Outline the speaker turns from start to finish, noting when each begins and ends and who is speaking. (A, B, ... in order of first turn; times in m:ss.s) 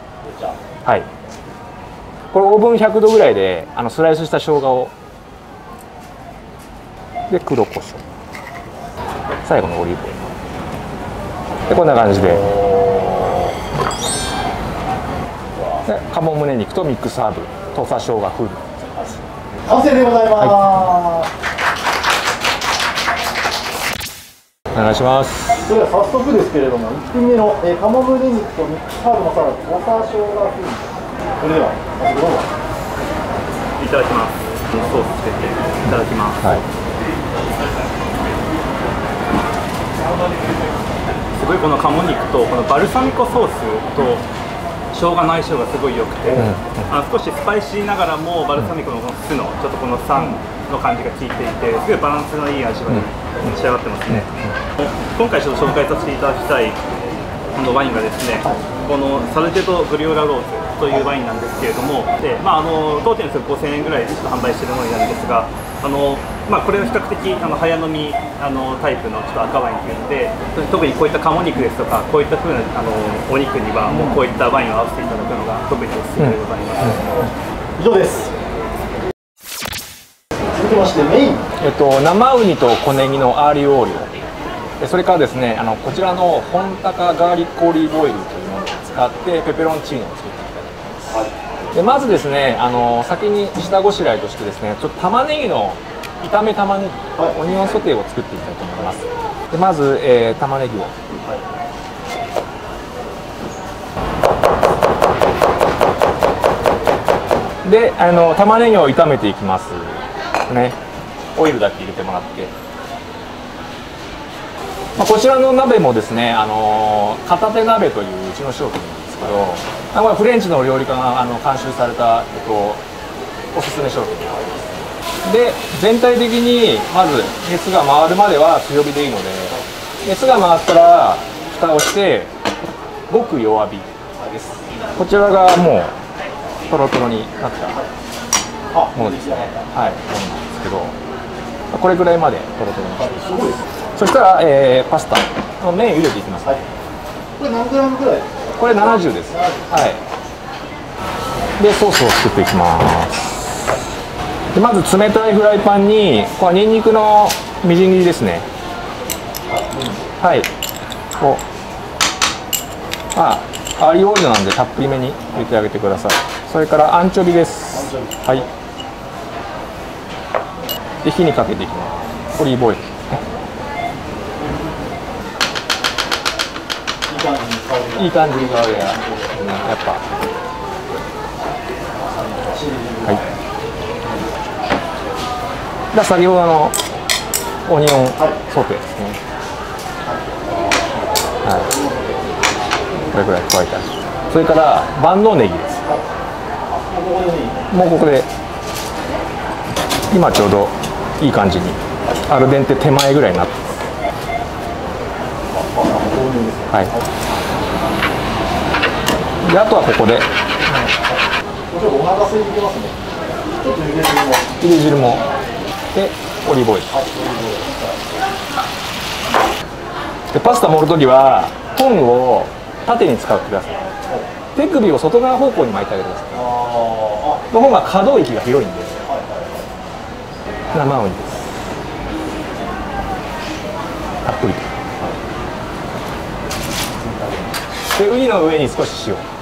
0:00.2-0:00.6 A
0:02.3-0:04.9 B
0:07.3-0:08.0 B
0:09.4-0:10.3 B
0:11.7-0:12.5 B
0:12.3-0:13.5 A
0:15.6-0:15.8 A
0:15.8-0:19.2 B
0:19.6-0:21.3 A
0:20.4-0:20.8 B
0:24.7-0:25.7 B
0:25.6-0:32.5 A
0:33.8-0:36.6 C
0:41.3-0:44.2 C
0:44.9-0:56.8 C
0:46.3-0:46.9 B
0:54.1-0:54.5 B
0:57.5-1:17.1 C
1:13.8-1:14.2 A
1:16.2-1:16.9 B
1:17.0-1:18.3 A
1:20.5-1:21.4 A
1:21.6-1:24.1 B
1:24.8-1:30.8 B
1:31.1-1:31.4 A
1:31.7-1:40.9 B
1:47.6-1:50.8 B
1:51.3-1:52.5 B
1:55.0-2:02.8 B
2:03.5-2:04.5 B
2:05.2-2:12.3 B
2:13.1-2:13.9 B
2:14.2-2:14.6 A
2:15.0-2:15.9 B
2:16.7-2:17.8 B
2:18.7-2:19.7 A
2:18.9-2:21.0 B
2:21.7-2:23.3 B
2:23.0-2:23.8 A
2:23.9-2:26.6 B
2:27.4-2:29.9 A
2:28.6-2:30.0 B
2:31.6-2:33.7 B
2:34.5-2:38.5 B
2:39.5-2:40.1 A
2:40.2-2:40.5 B
2:41.2-2:41.4 B
2:43.1-2:48.4 B
2:47.7-2:48.5 A
2:51.0-2:53.2 B
2:57.1-2:59.3 A
2:58.0-3:00.0 B
3:02.0-3:03.2 A
3:05.9-3:06.8 B
3:07.7-3:09.2 B
3:10.0-3:11.0 A
3:11.4-3:11.7 B
3:11.6-3:12.3 A
3:13.1-3:15.8 B
3:15.8-3:16.1 A
3:16.7-3:17.6 A
3:17.7-3:18.3 B
3:20.1-3:23.5 B
3:25.5-3:27.1 A
3:29.4-3:30.9 B
3:30.9-3:31.2 A
3:31.7-3:33.0 A
3:33.6-3:34.6 A
3:34.6-3:35.2 B
3:35.9-3:36.9 B
3:36.9-3:38.1 A
3:40.3-3:43.9 B
3:44.5-3:46.6 B
3:46.3-3:47.4 A
3:47.5-3:49.0 B
3:49.0-3:49.7 A
3:50.7-3:51.5 B
3:54.2-3:54.7 B
3:57.0-3:57.5 A
3:57.9-3:59.2 B